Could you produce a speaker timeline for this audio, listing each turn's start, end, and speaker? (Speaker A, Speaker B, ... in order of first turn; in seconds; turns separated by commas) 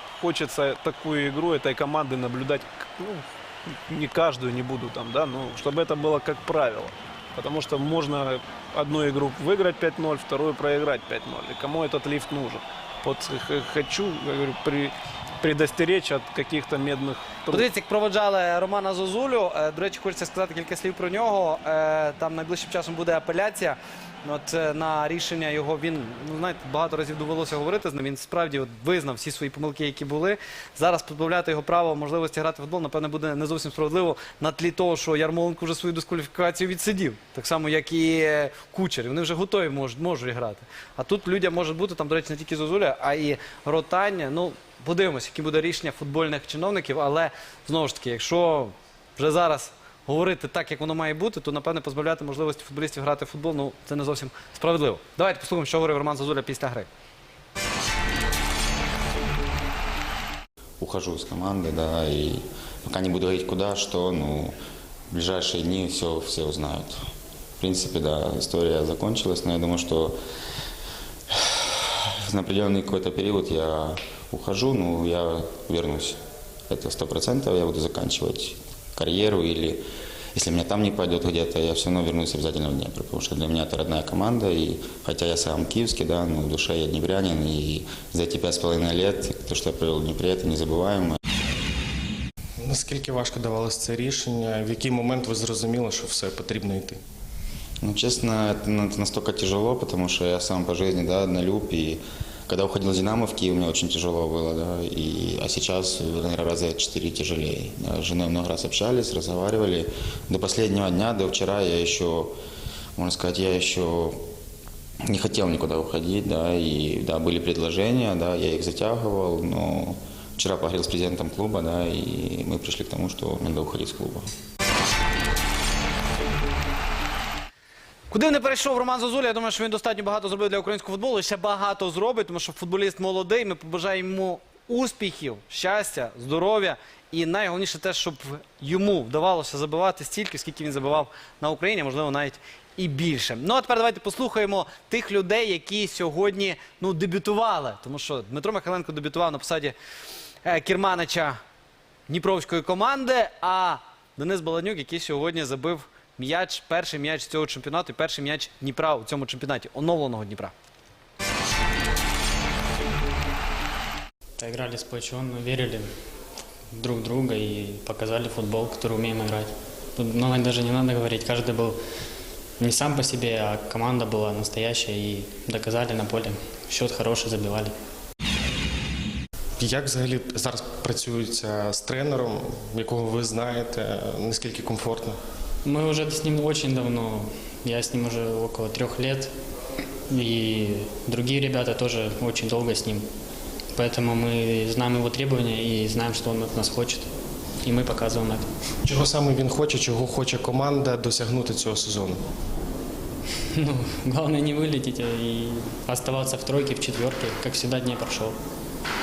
Speaker A: 0.2-17.7, Speaker B: 17.5-56.9, Speaker C: 60.8-64.5, Speaker C: 65.1-67.0, Speaker C: 67.6-70.2, Speaker C: 71.3-76.2, Speaker C: 76.7-79.8, Speaker C: 80.3-91.2, Speaker D: 92.6-97.0, Speaker C: 97.8-112.3, Speaker C: 113.0-114.2, Speaker C: 115.1-124.3, Speaker B: 128.1-149.7, Speaker B: 150.4-151.4, Speaker B: 152.1-160.5, Speaker E: 164.4-165.9, Speaker E: 166.7-171.8, Speaker E: 172.6-177.7, Speaker D: 179.6-185.2, Speaker E: 185.6-189.3, Speaker E: 190.1-193.1, Speaker E: 193.7-197.1, Speaker E: 197.6-198.5, Speaker D: 198.8-202.2, Speaker E: 203.6-208.3